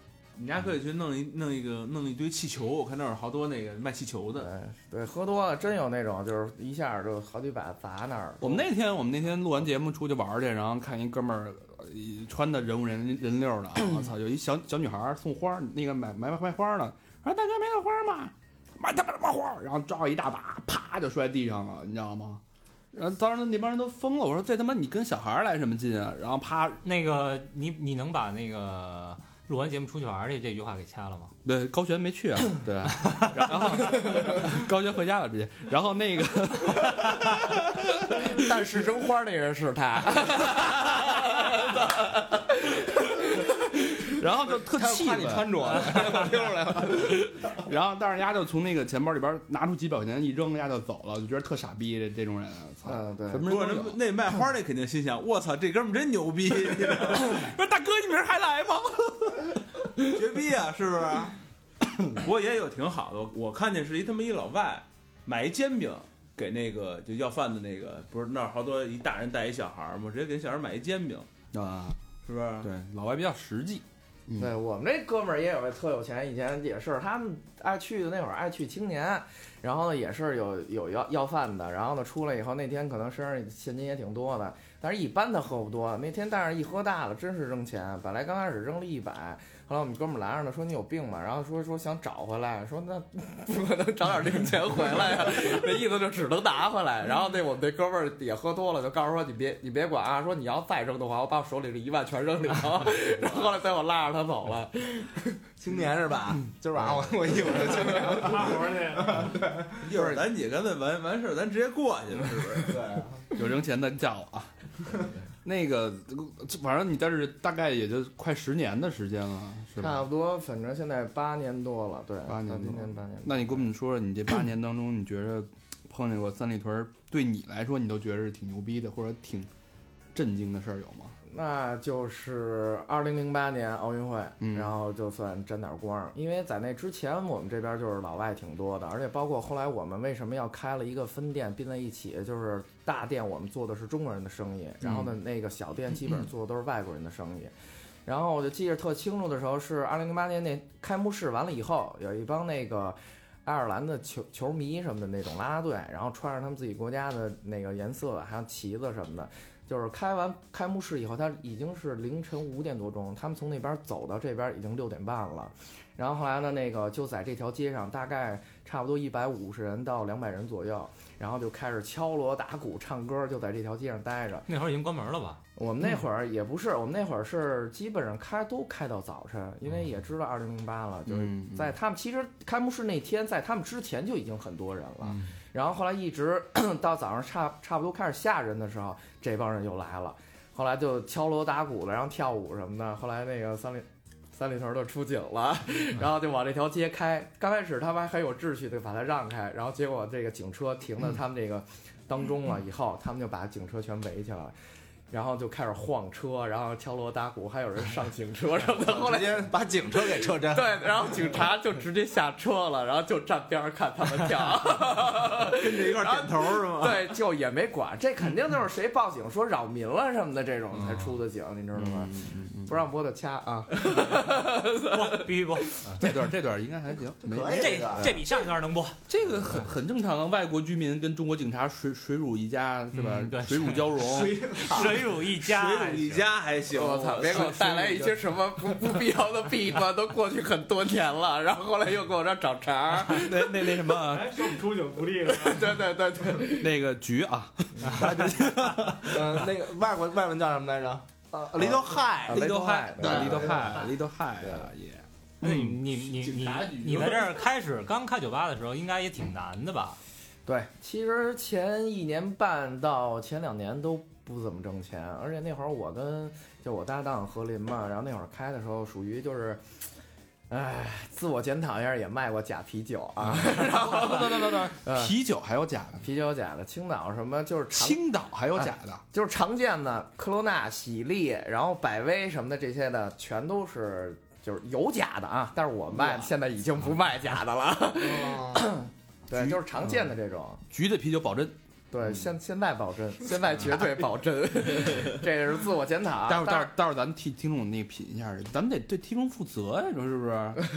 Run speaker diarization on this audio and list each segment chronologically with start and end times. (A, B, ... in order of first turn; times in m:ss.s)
0:00.4-0:04.5 A
0:04.4-0:08.6 B
0:08.4-0:22.4 C
0:22.9-0:26.8 C
0:26.8-0:31.3 D
0:31.4-0:37.7 C
0:34.1-0:34.4 B
0:38.1-0:44.1 B
0:44.0-0:54.0 C
0:44.6-0:47.3 E
0:52.8-0:53.5 B
0:53.4-0:57.5 A
0:57.1-0:59.5 C
1:00.1-1:01.3 A
1:02.1-1:11.3 A
1:11.5-1:12.0 C
1:12.2-1:12.7 A
1:12.6-1:14.5 C
1:14.4-1:45.4 B
1:45.6-1:49.9 E
1:47.7-1:49.4 F
1:47.8-1:48.3 B
1:49.8-1:52.8 A
1:49.9-1:50.2 B
1:52.6-1:53.2 E
1:53.4-1:54.5 C
1:55.4-2:00.0 C
1:59.8-2:03.7 B
2:02.2-2:09.5 C
2:10.1-2:11.1 C
2:11.3-2:27.5 B
2:14.4-2:14.7 C
2:24.8-2:25.1 C
2:28.0-2:54.5 B
2:54.5-2:55.4 D
2:55.6-3:24.5 B
3:01.0-3:01.8 C
3:05.0-3:05.3 D
3:25.1-3:29.5 B
3:28.8-3:30.9 E
3:30.4-3:45.4 B
3:35.5-3:37.1 A
3:41.7-3:42.8 C
3:44.8-3:46.0 D
3:46.0-3:48.2 C
3:47.2-3:48.2 E
3:47.4-3:49.0 D
3:49.1-3:54.5 C
3:52.9-3:56.3 D
3:54.0-3:55.1 E
3:55.3-3:58.1 A
3:56.7-4:03.9 B
3:57.3-3:57.8 C
4:03.0-4:04.6 C
4:04.0-4:05.8 F
4:05.3-4:06.7 B
4:06.5-4:09.3 C
4:09.0-4:12.5 E
4:11.4-4:13.8 B
4:12.3-4:15.8 C
4:13.0-4:13.6 E
4:14.4-4:14.7 B
4:15.4-4:20.0 D
4:20.4-4:29.6 B
4:30.5-4:35.2 B
4:33.2-4:36.1 C
4:36.0-4:38.0 B
4:37.7-4:39.0 C
4:38.6-4:50.6 B
4:48.0-4:48.7 E
4:49.3-4:50.1 C
4:50.7-4:51.5 C
4:51.9-4:56.7 B
4:56.2-5:00.6 C